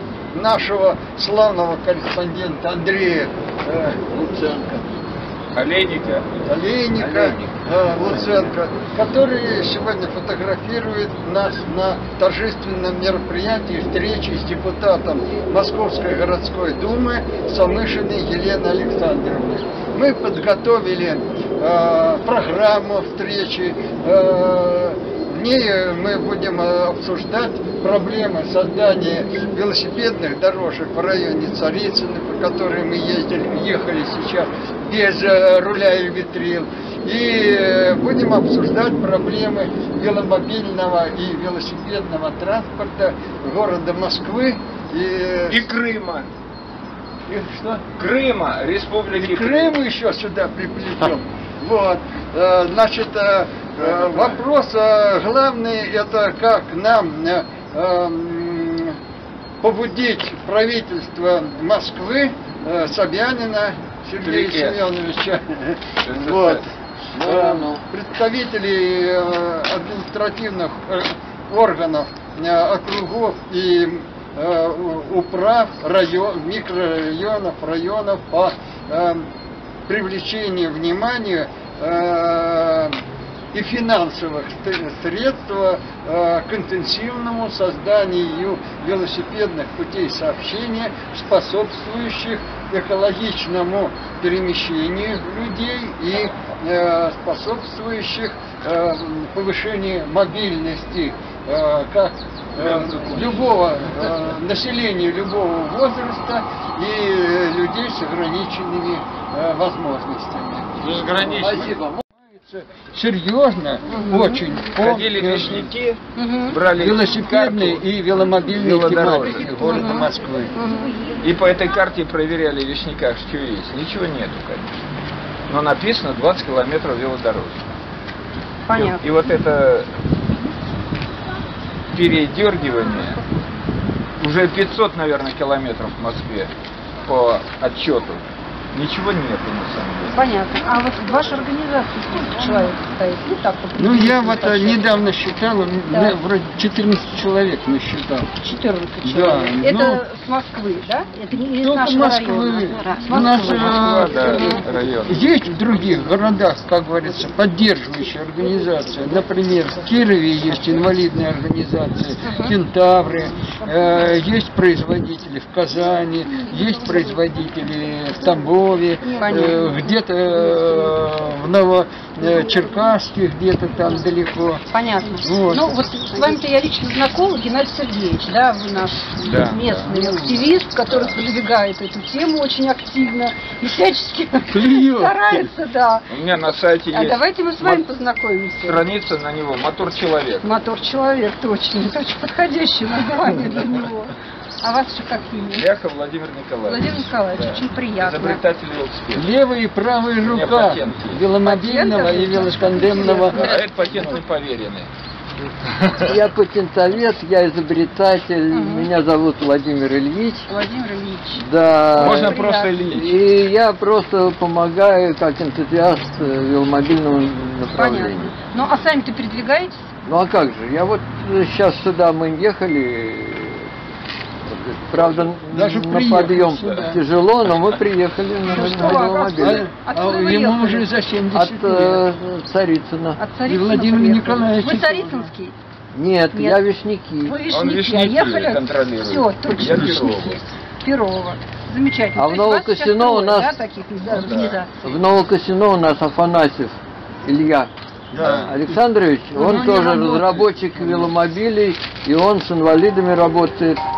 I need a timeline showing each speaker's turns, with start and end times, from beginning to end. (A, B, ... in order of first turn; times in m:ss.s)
0:00.3-0:04.0 A
0:04.1-0:04.9 B
0:05.5-0:06.3 C
0:06.5-0:45.6 A
0:07.0-0:07.6 C
0:08.0-0:08.5 B
0:45.5-0:46.3 C
0:47.3-0:47.8 A
0:47.9-0:49.8 C
0:49.2-0:59.0 A
0:59.6-1:06.6 A
1:04.2-1:04.8 C
1:06.0-1:06.6 C
1:07.2-1:07.8 B
1:07.2-1:19.3 A
1:19.9-1:23.0 A
1:23.5-1:55.7 A
1:42.6-1:43.5 C
1:50.8-1:51.7 C
1:51.3-1:52.0 B
1:53.9-1:54.4 D
1:54.8-1:59.8 C
1:56.2-1:56.6 D
1:56.8-2:00.6 A
1:59.5-2:01.2 D
2:01.2-2:04.8 C
2:05.5-2:07.7 C
2:08.7-2:09.0 D
2:08.7-2:09.9 C
2:11.9-2:13.2 C
2:14.2-2:16.5 C
2:17.0-2:20.3 C
2:20.1-2:24.9 D
2:23.8-2:28.3 A
2:25.9-2:26.2 D
2:28.4-2:34.6 D
2:29.0-2:30.0 A
2:31.6-2:34.3 A
2:33.1-2:35.3 C
2:35.1-2:54.6 A
2:42.2-2:42.6 D
2:49.2-2:49.6 D
2:54.7-3:06.1 D
2:55.2-2:55.8 A
2:59.2-2:59.9 C
2:59.9-3:00.5 A
3:00.9-3:01.2 C
3:04.5-3:05.5 A
3:06.1-3:07.8 C
3:06.9-3:08.8 D
3:08.6-3:10.5 C
3:10.4-3:15.7 D
3:15.5-3:19.3 C
3:16.6-3:18.4 D
3:19.1-3:23.5 A
3:20.2-3:21.2 C
3:21.4-3:24.1 D
3:23.3-3:24.9 C
3:25.7-3:26.1 C
3:26.0-3:30.5 B
3:28.5-3:28.9 D
3:30.5-3:31.4 D
3:31.4-3:38.4 B
3:31.9-3:33.2 C
3:32.0-3:32.7 D
3:37.8-3:39.8 D
3:40.1-3:43.7 B
3:44.5-3:49.7 B
3:45.5-3:47.0 A
3:46.6-3:47.0 C
3:48.5-3:50.9 D
3:49.0-3:52.1 A
3:51.3-3:53.2 B
3:53.2-3:55.6 D
3:53.5-3:55.3 A
3:55.9-3:57.4 B
3:56.3-3:56.6 D
3:57.2-4:04.8 D
3:57.5-4:00.4 C
4:02.2-4:03.5 B
4:04.1-4:04.6 C
4:04.8-4:07.7 B
4:08.1-4:08.8 A
4:08.2-4:13.8 B
4:09.4-4:11.2 A
4:09.4-4:09.6 D